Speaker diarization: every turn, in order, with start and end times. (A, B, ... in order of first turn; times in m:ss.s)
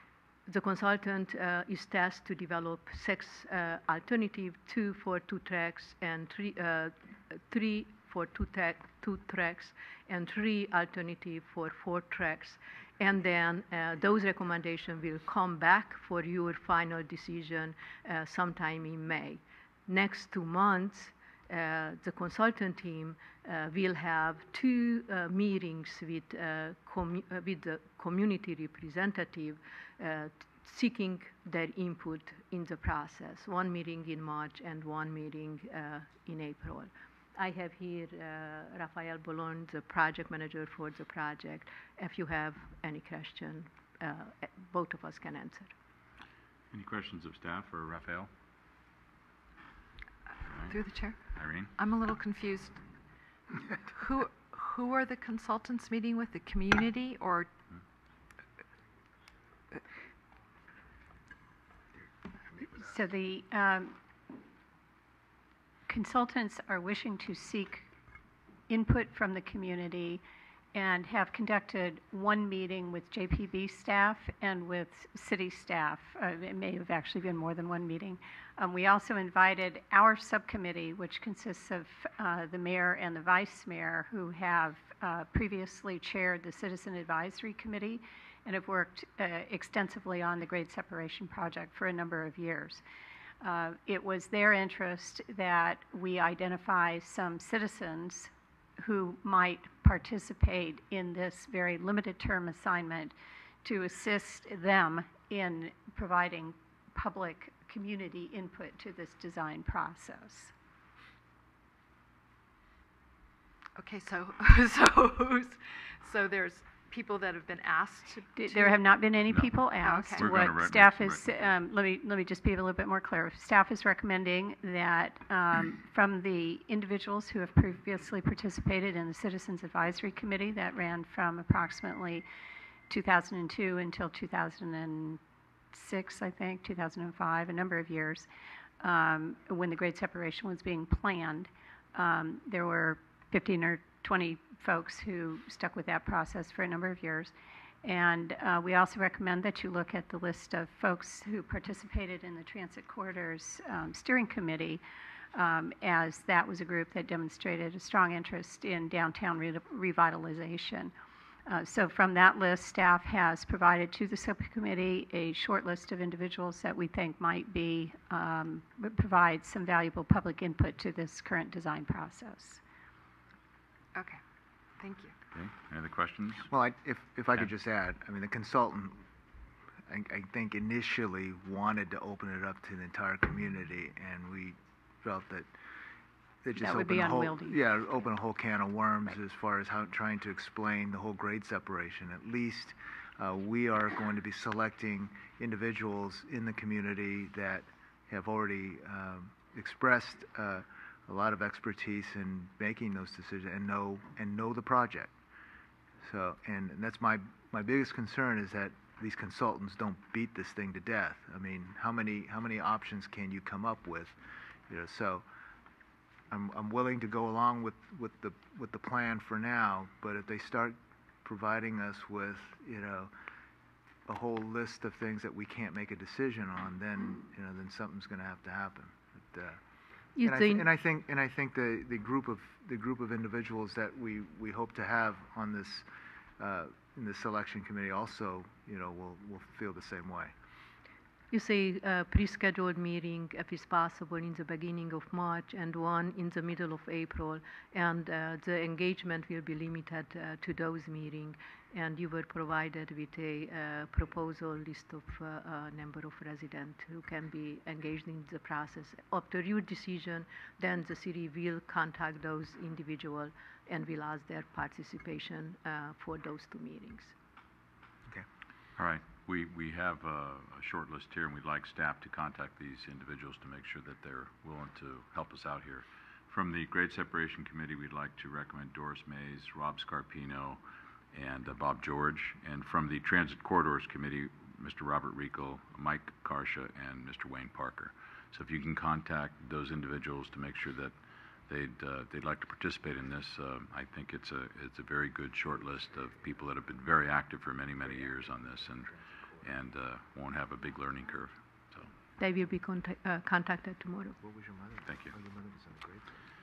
0:00.5-0:45.7 A
0:46.7-0:48.3 B
0:50.5-0:51.7 B
0:50.7-0:51.2 C
0:51.8-0:52.8 C
0:53.9-0:57.5 C
1:02.6-1:04.0 D
1:05.9-1:07.9 D
1:08.7-1:10.2 D
1:10.7-1:32.8 D
1:33.4-1:50.5 D
1:53.8-1:58.8 C
1:58.4-2:12.2 D
1:59.3-2:01.2 B
1:59.8-2:00.2 C
2:12.9-2:15.2 D
2:15.7-2:18.3 D
2:18.8-2:27.3 D
2:27.8-2:34.8 D
2:35.3-2:40.9 D
2:41.4-2:52.6 D
2:53.9-2:54.2 C
2:54.8-2:55.1 C
2:55.3-2:56.5 B
2:56.5-2:59.0 E
2:59.9-3:05.5 E
3:06.4-3:25.1 E
3:06.6-3:07.6 D
3:26.0-3:34.2 E
3:34.7-3:35.2 E
3:36.3-3:43.1 E
3:44.0-3:49.6 E
3:50.2-3:50.6 A
3:50.2-3:55.9 E
3:56.4-4:00.3 E
4:01.3-4:27.1 A
4:28.8-4:40.6 B
4:41.1-4:51.0 B
4:51.5-5:01.9 B
5:02.2-5:04.2 A
5:04.2-5:06.1 E
5:04.8-5:05.1 B